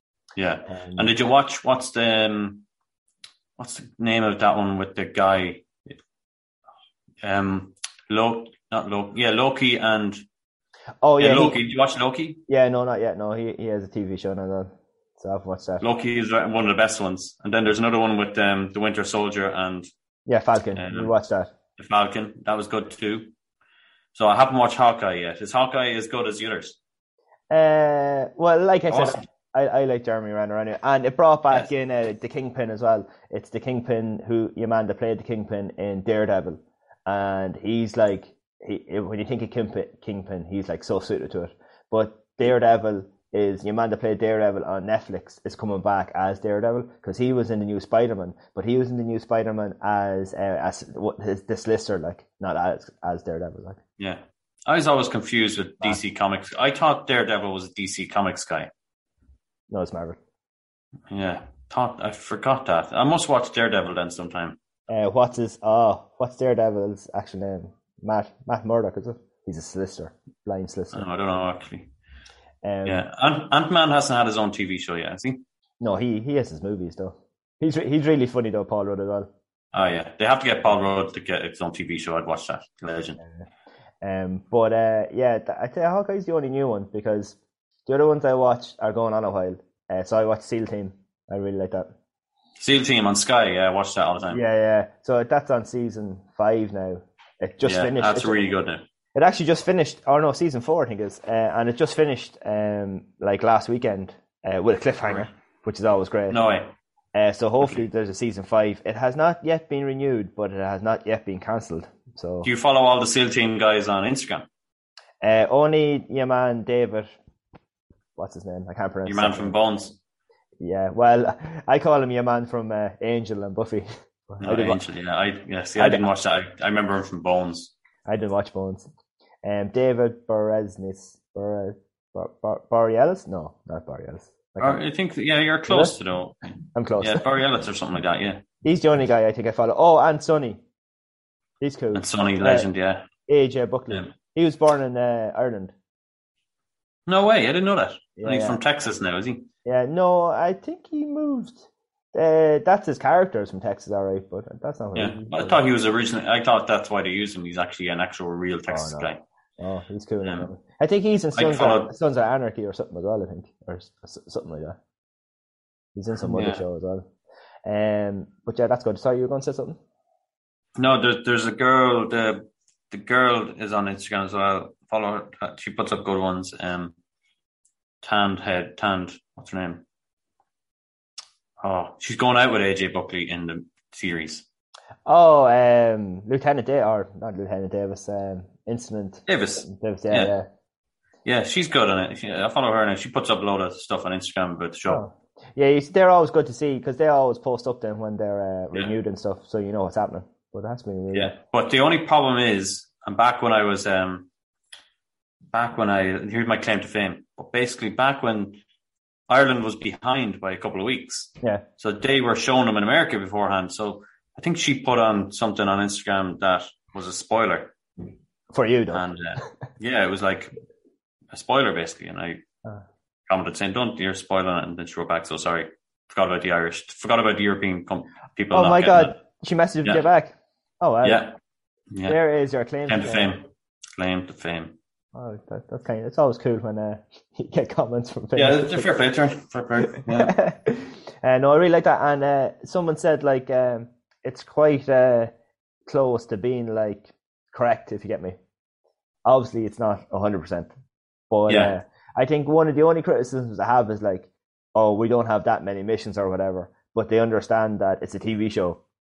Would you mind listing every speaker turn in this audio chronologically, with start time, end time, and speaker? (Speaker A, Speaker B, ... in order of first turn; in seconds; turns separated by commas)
Speaker A: 0.3-2.6, Speaker B: 0.7-1.1, Speaker A: 3.6-6.0, Speaker A: 7.2-10.2, Speaker B: 11.0-11.6, Speaker A: 11.2-12.4, Speaker B: 12.5-15.8, Speaker A: 15.8-19.9, Speaker B: 20.3-21.5, Speaker A: 20.8-21.1, Speaker A: 21.8-23.3, Speaker A: 24.1-26.8, Speaker B: 27.5-53.8, Speaker A: 28.9-29.2, Speaker A: 54.0-58.7, Speaker B: 59.7-60.2, Speaker A: 61.1-64.6, Speaker B: 64.9-71.1, Speaker A: 70.9-71.9, Speaker B: 72.6-73.0, Speaker A: 72.8-75.4, Speaker B: 75.8-79.3, Speaker A: 79.7-83.2, Speaker B: 84.0-91.9, Speaker A: 92.6-94.4, Speaker B: 94.3-98.5, Speaker A: 97.6-98.8, Speaker B: 99.2-106.4, Speaker A: 106.3-106.8, Speaker B: 107.2-112.5, Speaker A: 112.4-114.5, Speaker B: 115.2-117.1, Speaker B: 118.2-119.6, Speaker A: 119.1-120.0, Speaker B: 120.6-124.8, Speaker A: 124.4-127.7, Speaker B: 125.8-126.0, Speaker B: 128.1-128.9, Speaker B: 129.4-134.8, Speaker A: 134.6-136.4, Speaker B: 135.7-135.9, Speaker B: 136.8-137.2, Speaker A: 137.0-138.4, Speaker B: 138.6-140.6, Speaker B: 141.6-142.7, Speaker A: 141.9-143.1, Speaker B: 143.3-145.7, Speaker A: 147.1-149.5, Speaker B: 148.2-148.6, Speaker B: 149.7-155.6, Speaker A: 154.9-159.2, Speaker B: 158.7-164.8, Speaker A: 161.3-161.9, Speaker B: 166.0-167.1, Speaker A: 166.2-166.6, Speaker B: 167.7-169.8, Speaker A: 170.8-176.9, Speaker A: 178.0-179.8, Speaker A: 181.6-184.5, Speaker B: 185.1-190.5, Speaker A: 189.3-190.3, Speaker A: 191.2-195.0, Speaker B: 194.9-201.3, Speaker A: 201.1-204.3, Speaker A: 205.5-208.6, Speaker A: 209.3-217.7, Speaker B: 218.5-219.4, Speaker A: 218.9-220.5, Speaker A: 221.3-222.4, Speaker A: 223.3-229.2, Speaker B: 228.5-231.3, Speaker A: 231.0-231.4, Speaker A: 231.9-232.2, Speaker B: 232.1-233.4, Speaker A: 232.9-234.8, Speaker B: 235.1-238.9, Speaker A: 238.3-240.4, Speaker B: 239.9-245.3, Speaker B: 245.9-248.4, Speaker B: 249.3-250.7, Speaker B: 251.3-258.8, Speaker A: 251.5-251.7